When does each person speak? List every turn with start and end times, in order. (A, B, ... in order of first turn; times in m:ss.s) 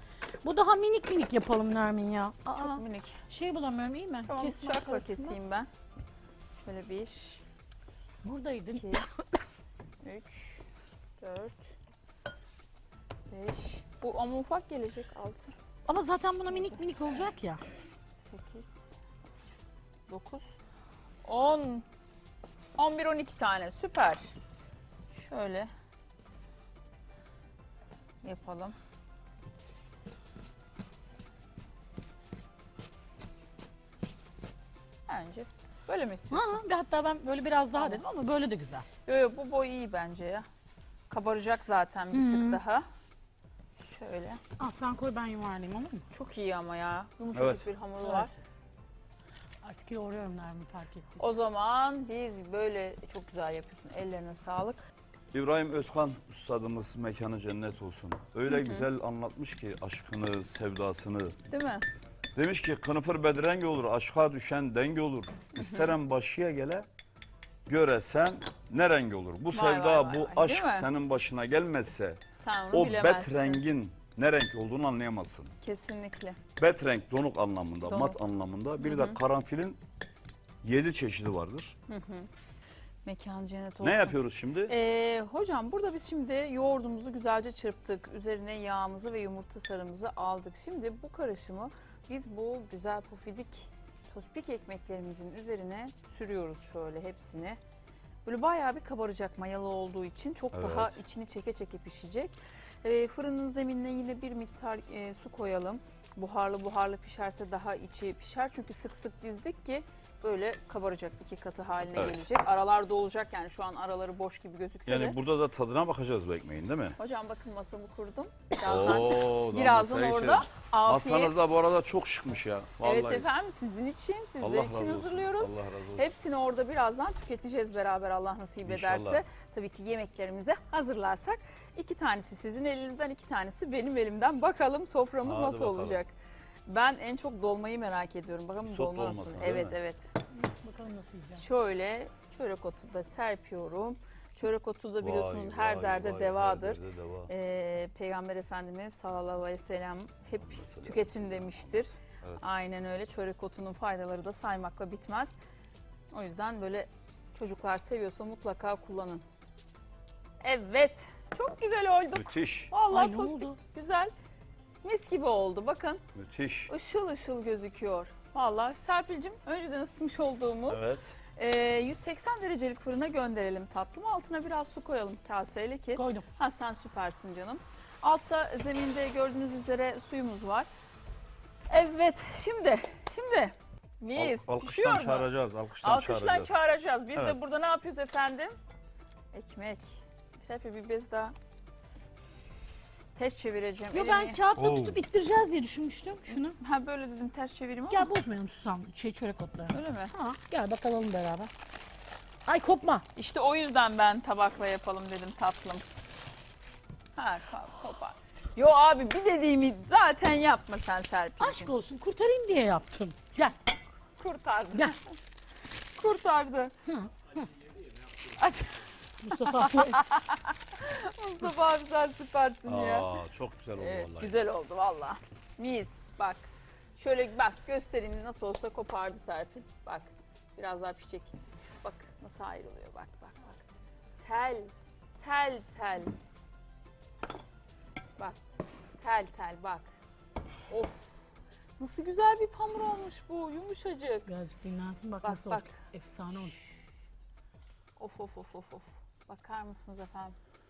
0:00.4-0:05.4 A
0:02.6-0:03.2 B
0:04.3-0:05.7 B
0:06.6-0:07.4 B
0:08.2-0:09.1 A
0:08.7-0:09.0 B
0:10.0-0:10.6 B
0:11.2-0:11.6 B
0:13.3-0:15.5 B
0:15.9-0:17.6 A
0:16.5-0:16.8 B
0:18.1-0:19.0 B
0:20.1-0:20.6 B
0:21.2-0:21.8 B
0:22.8-0:24.3 B
0:25.1-0:25.7 B
0:28.2-0:28.8 B
0:35.1-0:36.6 B
0:36.3-0:38.8 A
0:37.7-0:38.0 B
0:39.0-0:40.4 B
0:41.1-0:42.8 B
0:42.1-0:42.6 A
0:43.8-0:44.4 B
0:44.6-0:46.0 A
0:46.1-0:48.3 B
0:47.3-0:47.6 C
0:48.0-0:48.4 A
0:49.6-0:51.2 A
0:51.2-0:54.8 B
0:55.3-1:01.4 C
0:58.5-0:58.9 B
1:01.5-1:01.8 B
1:02.3-1:06.9 C
1:05.5-1:06.0 B
1:07.7-1:15.5 C
1:09.5-1:10.9 B
1:12.4-1:13.6 B
1:15.6-1:16.4 B
1:16.6-1:19.8 C
1:17.8-1:18.2 B
1:18.8-1:19.2 B
1:20.6-1:21.7 C
1:21.9-1:22.3 B
1:23.0-1:37.6 B
1:23.8-1:24.7 C
1:38.2-1:55.2 B
1:40.5-1:41.0 C
1:54.8-1:57.0 C
1:57.0-2:01.4 B
1:58.6-2:03.3 C
2:02.8-2:16.1 B
2:04.4-2:06.1 C
2:08.6-2:09.2 C
2:15.2-2:16.0 C
2:16.6-2:20.1 B
2:18.6-2:19.8 C
2:20.3-2:21.4 A
2:21.4-2:35.4 B
2:25.0-2:27.3 C
2:30.4-2:32.4 C
2:36.1-2:39.2 B
2:40.4-2:44.1 B
2:42.1-2:42.7 C
2:42.9-2:43.6 A
2:44.8-2:46.0 B
2:46.2-2:46.7 C
2:46.7-3:00.7 B
2:50.7-2:51.1 C
2:55.9-2:56.2 A
3:01.7-3:05.3 B
3:04.2-3:06.6 C
3:05.8-3:08.5 B
3:09.3-3:11.3 B
3:13.2-3:14.4 B
3:13.9-3:16.6 A
3:14.6-3:15.0 C
3:16.3-3:18.1 B
3:17.9-3:21.5 A
3:19.7-3:20.1 B
3:22.4-3:23.0 A
3:23.1-3:25.8 B
3:27.1-3:31.7 B
3:31.4-3:33.6 A
3:34.2-3:35.1 B
3:35.9-3:36.7 B
3:36.9-3:37.5 A
3:38.2-3:43.2 B
3:39.2-3:40.0 A
3:42.6-3:44.4 C
3:43.8-3:53.6 B
3:54.2-3:56.1 B
3:59.0-3:59.9 B
4:00.7-4:01.2 B
4:01.8-4:04.3 B
4:04.3-4:06.5 A
4:05.2-4:05.8 B
4:06.3-4:06.7 B
4:08.0-4:10.4 B